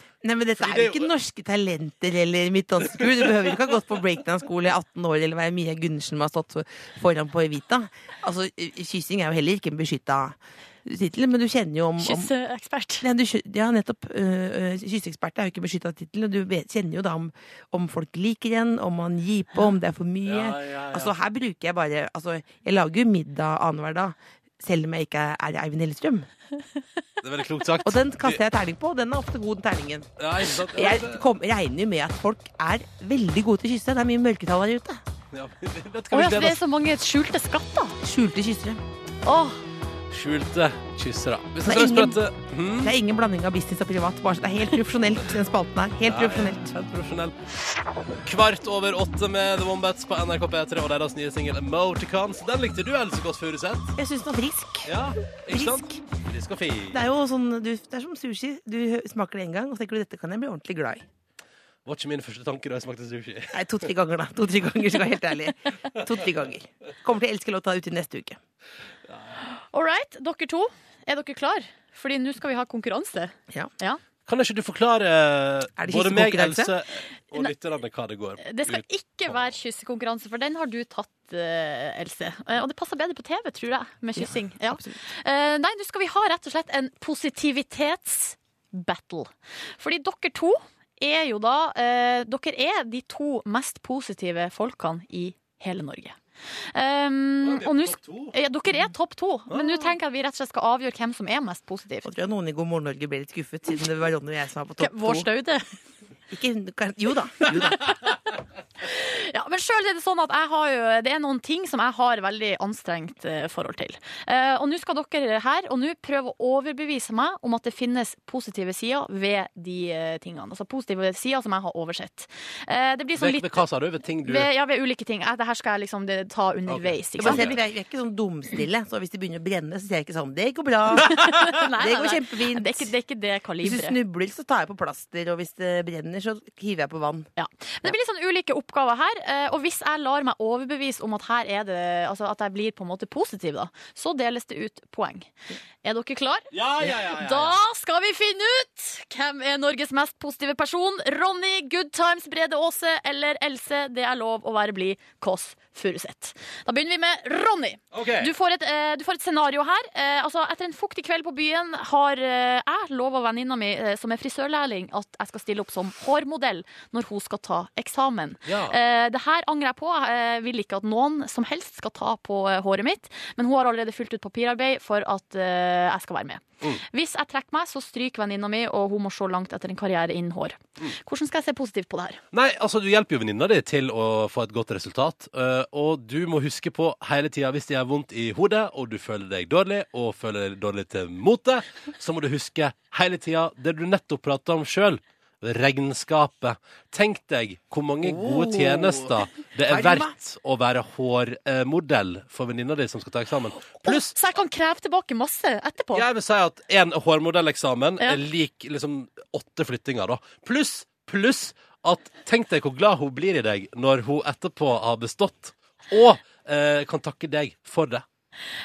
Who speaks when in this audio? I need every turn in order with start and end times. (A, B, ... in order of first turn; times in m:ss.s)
0:00.2-0:12.3 A
0:00.6-0:01.1 B
0:12.0-0:13.0 C
0:13.0-0:26.3 A
0:20.2-0:21.2 B
0:27.2-0:28.4 B
0:27.8-0:30.1 A
0:30.2-0:31.2 B
0:30.6-0:35.0 A
0:35.3-0:36.6 B
0:36.1-0:38.0 C
0:38.0-0:38.8 A
0:39.2-0:39.6 C
0:40.1-0:42.9 B
0:41.6-0:42.2 A
0:42.8-0:46.7 A
0:46.0-0:47.3 B
0:48.2-0:54.0 B
0:54.0-0:54.9 A
0:54.9-0:57.0 B
0:55.5-0:56.0 A
0:56.9-1:01.0 A
1:01.8-1:03.6 B
1:03.5-1:08.4 A
1:09.1-1:09.4 B
1:09.7-1:14.0 C
1:14.2-1:19.4 B
1:15.8-1:16.7 A
1:18.4-1:36.2 C
1:24.2-1:25.0 A
1:36.7-1:42.1 C
1:37.4-1:38.3 B
1:39.5-1:39.9 B
1:42.0-1:45.3 A
1:44.8-1:45.7 C
1:46.3-1:48.0 A
1:48.8-2:03.6 C
2:03.2-2:04.5 B
2:04.2-2:07.5 C
2:06.7-2:07.6 B
2:07.2-2:12.9 A
2:11.0-2:14.0 C
2:13.6-2:17.3 A
2:17.4-2:25.3 C
2:25.8-3:02.2 C
2:26.5-2:27.6 B
2:37.9-2:38.3 B
2:48.4-2:48.8 B
3:02.3-3:24.1 B
3:18.0-3:19.1 A
3:19.7-3:20.1 A
3:23.8-3:26.0 C
3:25.9-3:38.0 B